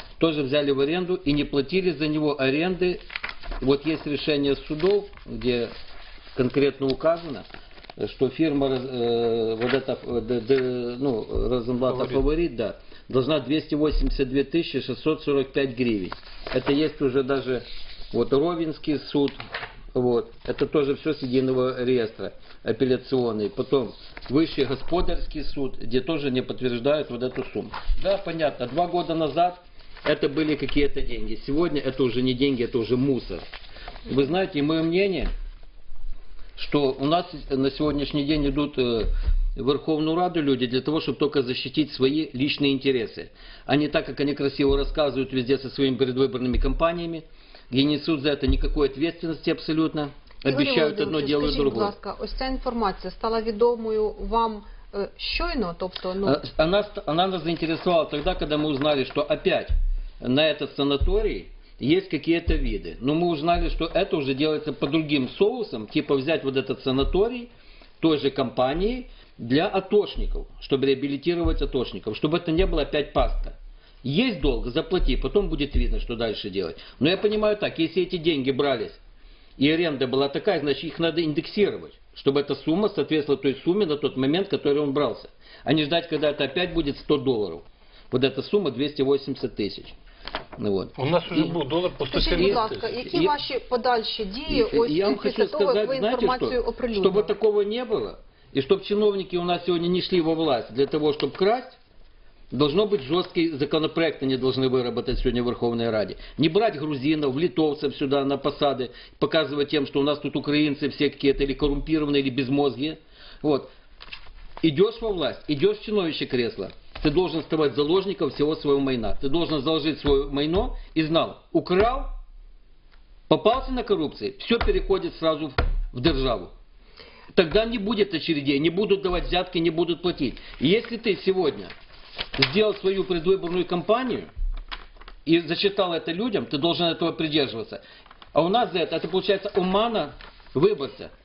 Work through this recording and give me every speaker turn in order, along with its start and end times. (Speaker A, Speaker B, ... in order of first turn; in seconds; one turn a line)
Speaker A: 0.2-3.0
Speaker A: 3.6-5.7
Speaker A: 6.3-7.5
Speaker A: 8.0-19.4
Speaker B: 11.9-12.2
Speaker A: 19.9-33.5
Speaker A: 34.1-35.3
Speaker A: 36.6-51.9
Speaker C: 50.5-56.4
Speaker A: 56.2-79.0
Speaker A: 79.6-90.0
Speaker A: 90.6-91.6
Speaker B: 91.0-92.9
Speaker C: 92.1-97.3
Speaker A: 92.3-93.3
Speaker A: 94.5-101.8
Speaker A: 102.5-113.7
Speaker A: 114.6-122.1
Speaker A: 123.3-126.5
Speaker A: 127.3-131.7
Speaker A: 132.4-134.3
Speaker A: 135.3-137.8
Speaker A: 138.3-141.1